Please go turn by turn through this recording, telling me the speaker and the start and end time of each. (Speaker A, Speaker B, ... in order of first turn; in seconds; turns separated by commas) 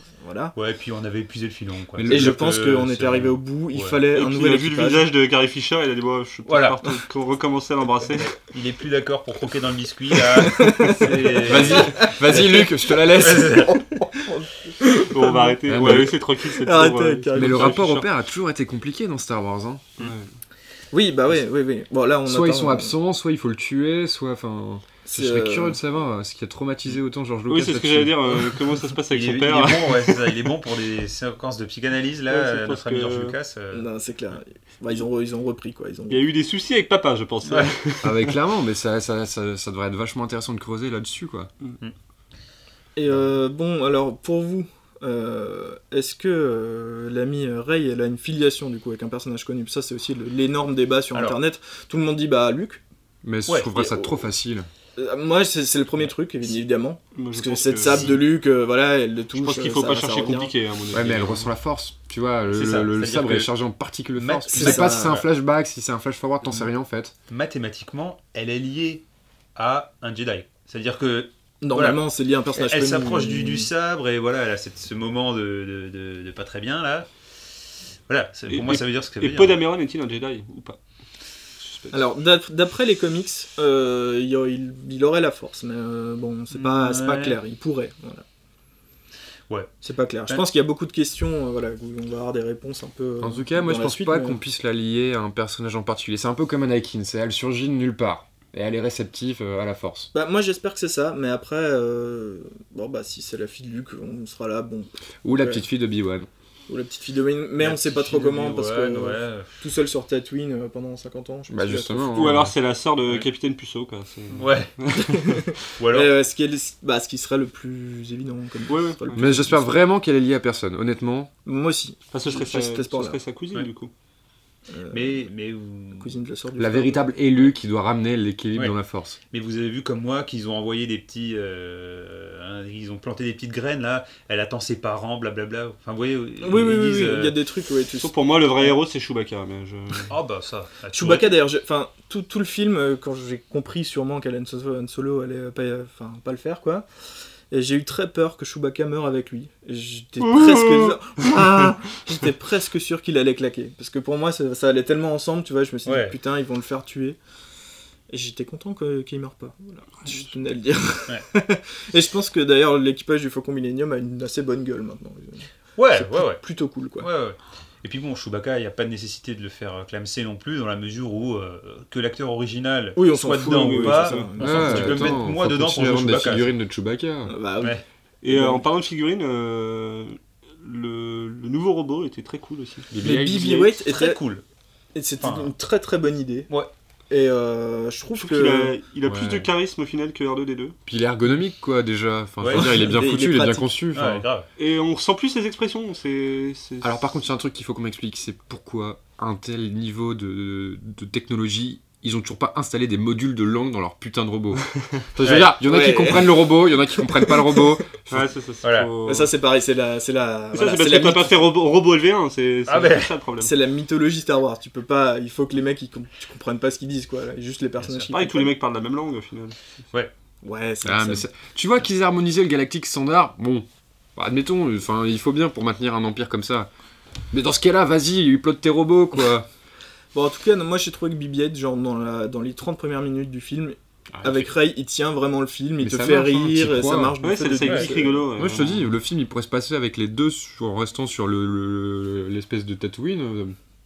Speaker A: 0.2-0.6, Speaker B: 0.6-4.0, Speaker C: 1.9-2.6, Speaker A: 2.1-5.1, Speaker D: 4.1-8.4, Speaker B: 6.5-6.8, Speaker B: 8.2-13.8, Speaker A: 10.4-12.5, Speaker C: 11.4-13.7, Speaker A: 13.0-17.8, Speaker D: 15.1-18.1, Speaker C: 15.7-16.1, Speaker C: 17.4-19.9, Speaker D: 20.0-20.3, Speaker A: 20.9-22.9, Speaker C: 22.3-28.6, Speaker A: 25.1-25.8, Speaker D: 27.5-30.5, Speaker B: 29.1-33.9, Speaker D: 32.3-33.4, Speaker A: 33.7-36.2, Speaker D: 36.1-38.4, Speaker B: 37.5-37.7, Speaker C: 38.0-41.5, Speaker A: 43.0-52.8, Speaker B: 51.1-51.4, Speaker C: 53.2-54.7, Speaker A: 53.7-54.2, Speaker A: 55.0-60.5, Speaker D: 57.1-58.3, Speaker B: 57.9-58.2, Speaker D: 59.3-61.5, Speaker C: 60.9-67.1, Speaker B: 62.5-63.5, Speaker B: 64.2-65.3, Speaker A: 64.5-65.2, Speaker B: 67.3-69.0, Speaker B: 69.5-72.0, Speaker A: 71.6-73.7, Speaker B: 72.5-77.1, Speaker B: 78.1-79.6, Speaker D: 78.5-80.8, Speaker D: 81.6-82.0, Speaker A: 81.9-88.2, Speaker B: 86.5-87.4, Speaker A: 89.8-94.4, Speaker C: 93.2-100.1, Speaker A: 100.1-105.7, Speaker C: 105.2-106.3, Speaker A: 106.7-112.5, Speaker B: 107.6-109.6, Speaker C: 111.5-112.5, Speaker D: 112.1-115.5, Speaker B: 114.3-114.7, Speaker A: 114.9-119.8, Speaker B: 115.8-116.1, Speaker D: 118.7-119.3, Speaker C: 119.1-121.3, Speaker A: 121.5-123.2, Speaker D: 122.1-123.9, Speaker A: 124.7-125.2, Speaker B: 124.9-126.2, Speaker A: 126.0-127.1, Speaker C: 126.6-129.2, Speaker B: 129.3-137.4, Speaker A: 136.4-138.7, Speaker D: 138.0-140.1, Speaker B: 140.1-141.3, Speaker A: 140.9-146.9, Speaker A: 147.5-157.2, Speaker D: 150.2-151.8, Speaker B: 155.8-156.2, Speaker A: 158.1-167.1, Speaker B: 165.8-166.4, Speaker B: 167.0-176.5, Speaker A: 173.0-175.2, Speaker D: 173.4-174.3, Speaker C: 174.4-177.3, Speaker A: 177.3-178.6, Speaker D: 178.2-182.9, Speaker C: 182.9-183.7, Speaker A: 183.0-184.2, Speaker B: 183.7-184.4, Speaker A: 184.9-186.5, Speaker B: 185.2-185.5, Speaker A: 187.1-188.8, Speaker D: 188.2-190.8, Speaker C: 189.0-189.5, Speaker C: 190.9-194.3, Speaker B: 192.4-192.7, Speaker A: 192.5-193.7, Speaker B: 193.9-194.5, Speaker D: 194.6-197.0, Speaker C: 196.8-208.3, Speaker B: 205.2-205.5, Speaker A: 205.6-207.6, Speaker D: 208.1-209.3, Speaker B: 208.6-208.9, Speaker A: 209.1-211.4, Speaker D: 210.5-213.5, Speaker B: 212.7-213.1, Speaker A: 213.4-218.5, Speaker D: 218.0-219.6, Speaker A: 220.4-221.3, Speaker C: 220.8-226.7, Speaker C: 227.3-229.5, Speaker A: 230.1-238.2, Speaker C: 234.1-234.5, Speaker C: 235.8-237.2, Speaker D: 237.2-238.9, Speaker B: 237.6-237.9, Speaker C: 238.3-243.6